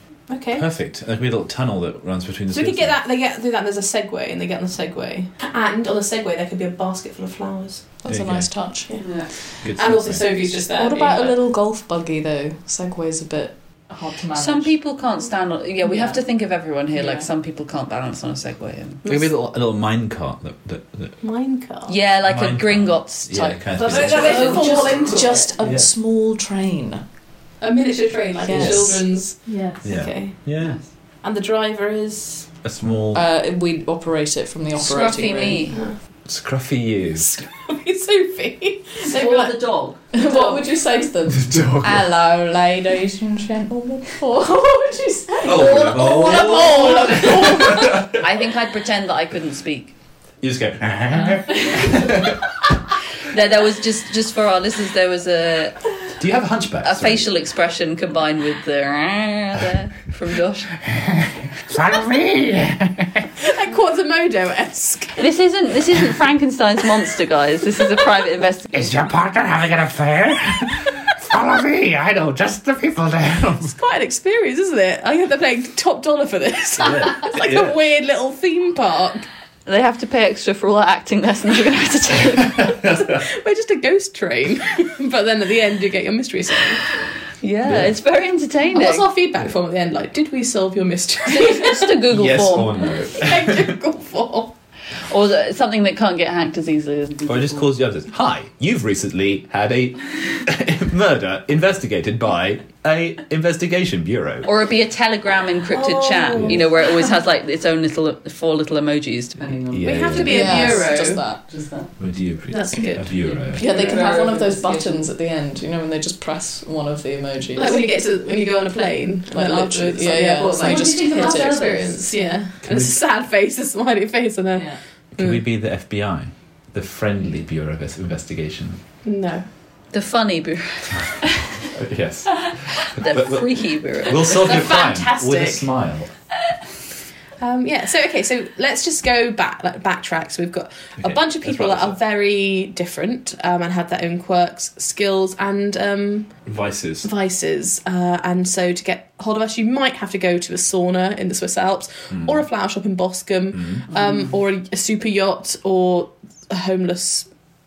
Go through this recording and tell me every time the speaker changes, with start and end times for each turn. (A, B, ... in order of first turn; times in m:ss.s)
0:00.3-0:00.7 A
0:00.5-0:03.0 B
0:02.5-0:08.0 A
0:08.0-0:09.4 C
0:08.1-0:08.6 B
0:08.9-0:11.4 A
0:09.0-0:09.3 D
0:09.6-0:10.2 B
0:10.7-0:14.8 C
0:14.3-0:19.3 D
0:15.8-0:16.2 C
0:16.9-0:17.3 C
0:19.0-0:21.2 B
0:21.2-0:22.0 A
0:21.9-0:25.3 D
0:22.2-0:24.7 B
0:23.8-0:25.6 A
0:23.9-0:27.0 C
0:25.6-0:25.9 B
0:27.6-0:30.4 A
0:28.4-0:29.8 C
0:28.5-0:29.0 D
0:29.8-0:30.8 B
0:30.6-0:30.8 D
0:31.2-0:32.5 A
0:32.6-0:33.2 B
0:33.1-0:35.7 C
0:34.8-0:35.8 D
0:35.7-0:36.0 A
0:36.2-0:37.3 B
0:37.2-0:39.6 A
0:39.1-0:40.6 D
0:40.1-0:48.0 C
0:41.3-0:42.0 B
0:45.4-0:48.2 B
0:45.6-0:49.9 D
0:46.4-0:47.7 A
0:50.4-0:52.4 B
0:53.3-0:55.9 D
0:56.2-0:57.3 B
0:56.8-1:00.9 D
1:01.7-1:03.3 E
1:03.4-1:05.2 A
1:05.2-1:08.9 D
1:08.7-1:13.7 E
1:13.6-1:19.3 A
1:16.8-1:17.7 B
1:19.7-1:22.9 D
1:22.6-1:23.2 B
1:23.1-1:26.8 A
1:27.4-1:29.1 D
1:27.6-1:27.9 B
1:28.7-1:32.0 A
1:31.3-1:32.9 D
1:32.1-1:33.7 B
1:33.1-1:34.5 A
1:35.1-1:37.7 D
1:37.3-1:44.5 B
1:44.4-1:51.9 D
1:45.7-1:46.9 A
1:46.4-1:46.6 B
1:49.7-1:50.5 B
1:49.8-1:51.2 A
1:50.3-1:51.4 C
1:52.0-1:53.6 B
1:52.5-1:54.0 A
1:53.2-1:55.1 D
1:53.6-1:57.8 C
1:57.6-2:05.4 A
1:59.4-2:02.4 C
2:00.2-2:02.2 D
2:02.6-2:03.0 B
2:04.6-2:04.8 C
2:05.1-2:08.8 B
2:09.0-2:09.5 A
2:09.9-2:11.3 D
2:11.7-2:16.1 B
2:13.0-2:14.5 D
2:14.2-2:15.7 A
2:17.4-2:26.5 A
2:21.0-2:22.0 B
2:26.5-2:27.1 B
2:27.0-2:37.3 A
2:32.1-2:32.4 B